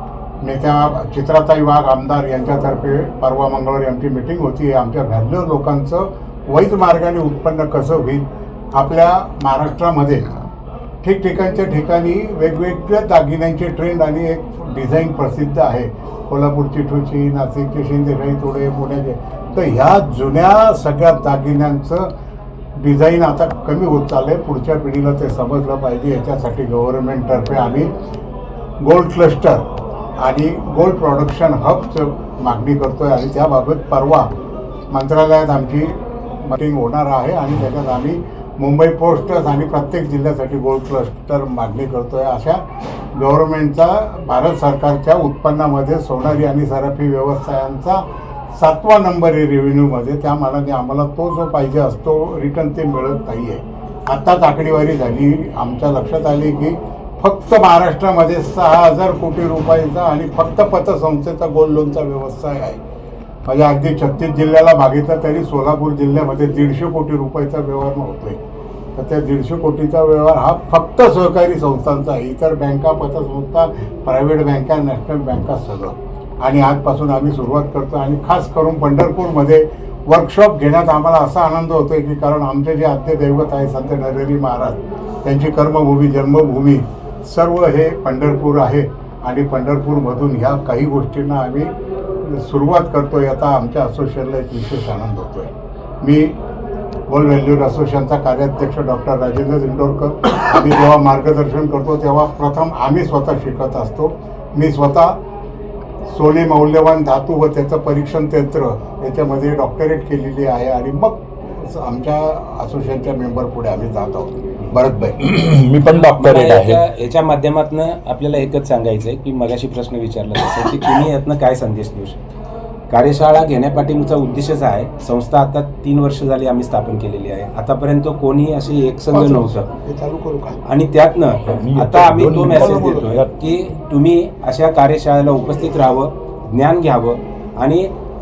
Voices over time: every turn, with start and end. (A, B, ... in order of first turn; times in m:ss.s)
0:00.4-0:10.3 A
0:11.0-0:22.1 A
0:22.8-0:27.9 A
0:28.8-0:29.7 A
0:30.2-0:34.3 A
0:34.9-0:42.6 A
0:43.1-0:48.0 A
0:48.5-1:02.8 A
1:03.4-1:08.4 A
1:08.9-1:31.7 A
1:32.2-1:36.3 A
1:37.1-1:45.2 A
1:46.1-1:55.2 A
1:55.2-1:56.8 B
1:55.8-2:02.2 C
2:02.9-2:09.7 C
2:09.1-2:10.6 A
2:10.6-2:17.9 C
2:11.5-2:13.4 B
2:12.5-2:13.0 A